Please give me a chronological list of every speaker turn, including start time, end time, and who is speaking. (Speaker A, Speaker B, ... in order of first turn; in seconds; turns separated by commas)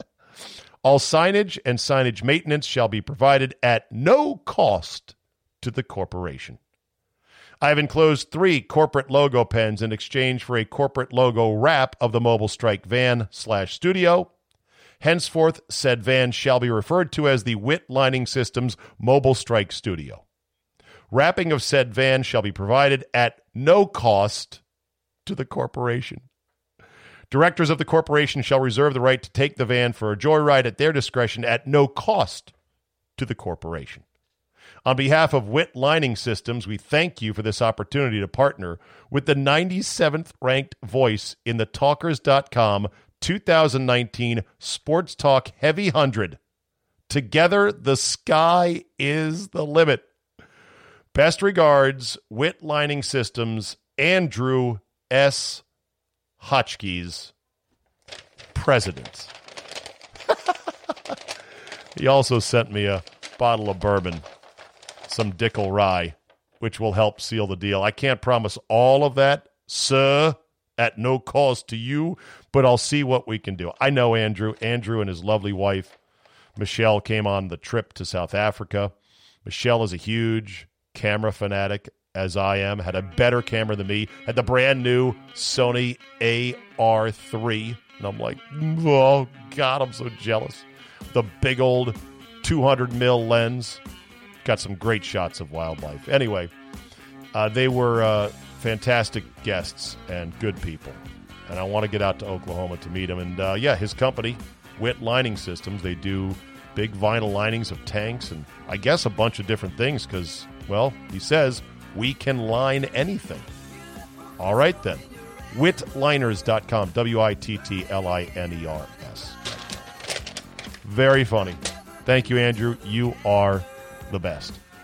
Speaker A: 0.8-6.6, Speaker A: 7.6-14.3, Speaker A: 15.0-20.2, Speaker A: 21.1-24.6, Speaker A: 25.2-26.2, Speaker A: 27.3-32.5, Speaker A: 33.2-34.0, Speaker A: 34.8-46.4, Speaker A: 47.1-50.1, Speaker A: 51.1-55.6, Speaker A: 56.4-57.3, Speaker A: 58.5-59.3, Speaker A: 61.9-64.2, Speaker A: 65.1-75.9, Speaker A: 76.6-78.9, Speaker A: 79.4-93.8, Speaker A: 94.4-96.5, Speaker A: 97.3-113.5, Speaker A: 114.4-119.7, Speaker A: 120.8-124.6